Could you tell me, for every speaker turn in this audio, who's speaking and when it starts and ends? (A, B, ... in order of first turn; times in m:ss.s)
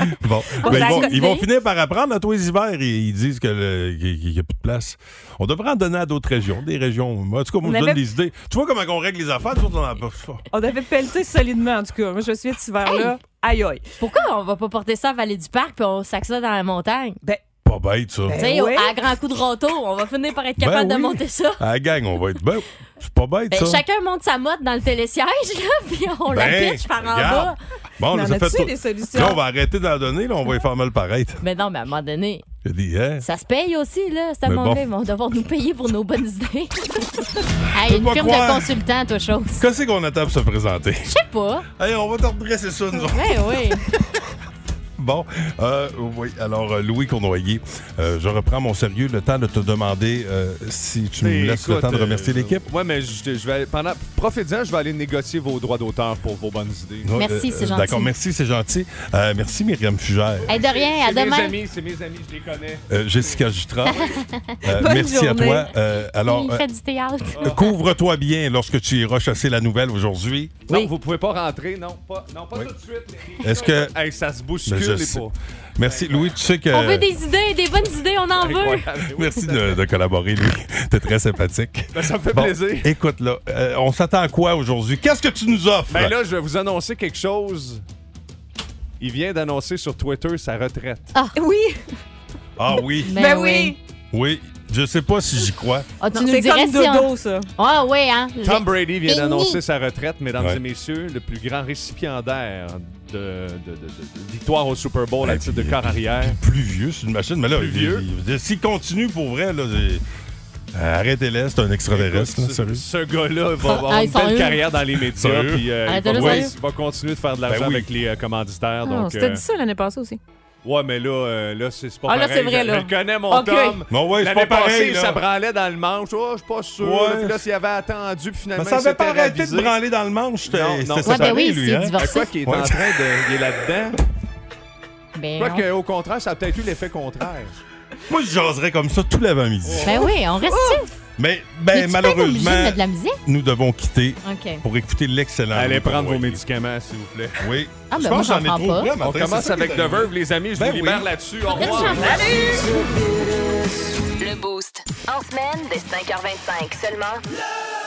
0:00.1-0:10.4 A
0:00.6-0:01.2 B
0:00.6-0:01.5 C
0:07.6-0:08.0 B
0:10.5-0:13.8 B
0:12.8-0:13.1 C
0:14.0-0:17.2 C
0:17.6-0:18.4 A
0:18.3-0:18.9 B
0:18.4-0:21.6 C
0:20.6-0:23.8 A
0:23.5-0:27.6 C
0:26.3-0:31.4 A
0:28.1-0:29.4 B
0:31.4-0:32.4 C
0:32.6-0:33.2 A
0:33.2-0:37.0 C
0:34.4-0:34.8 A
0:37.7-0:39.7 C
0:37.8-0:38.7 A
0:39.6-0:41.1 A
0:41.0-0:41.7 C
0:41.8-0:43.8 A
0:43.0-0:43.9 C
0:45.0-0:52.7 A
0:51.2-0:57.1 D
0:57.0-1:00.6 A
0:57.1-0:58.1 C
1:00.4-1:03.4 D
1:00.5-1:01.6 C
1:02.9-1:06.6 A
1:03.9-1:04.6 C
1:04.7-1:05.7 B
1:06.2-1:07.6 C
1:07.3-1:07.7 D
1:07.4-1:10.6 A
1:10.7-1:16.4 D
1:13.4-1:13.9 A
1:14.7-1:17.1 A
1:16.7-1:18.9 C
1:18.4-1:19.8 D
1:19.1-1:26.1 A
1:21.9-1:22.9 D
1:25.9-1:27.8 D
1:29.0-1:31.1 D
1:31.1-1:31.4 C
1:31.4-1:31.8 B
1:32.6-1:33.1 A
1:33.1-1:33.8 C
1:33.1-1:33.8 B
1:34.1-1:35.9 A
1:36.0-1:39.6 C
1:36.1-1:37.5 B
1:38.4-1:46.4 D
1:45.2-1:50.0 A
1:47.5-1:48.0 D
1:50.7-1:52.8 A
1:51.9-1:59.4 D
1:53.8-1:54.6 C
1:55.1-1:56.4 A
1:55.8-1:56.5 C
1:57.5-1:57.9 A
1:58.8-2:00.2 B
2:00.6-2:09.8 D
2:02.0-2:03.8 B
2:03.9-2:05.2 A
2:06.8-2:07.4 A
2:08.6-2:12.9 A
2:10.4-2:14.0 D
2:11.0-2:12.3 C
2:15.1-2:15.7 C
2:15.4-2:17.5 D
2:18.1-2:19.9 A
2:19.8-2:20.9 C
2:20.0-2:20.8 B
2:21.2-2:26.4 A
2:21.7-2:23.2 C
2:24.2-2:24.6 C
2:25.5-2:27.5 D
2:27.4-2:31.1 A
2:27.9-2:28.9 C
2:29.0-2:32.6 D
2:31.5-2:32.7 C
2:34.2-2:37.2 E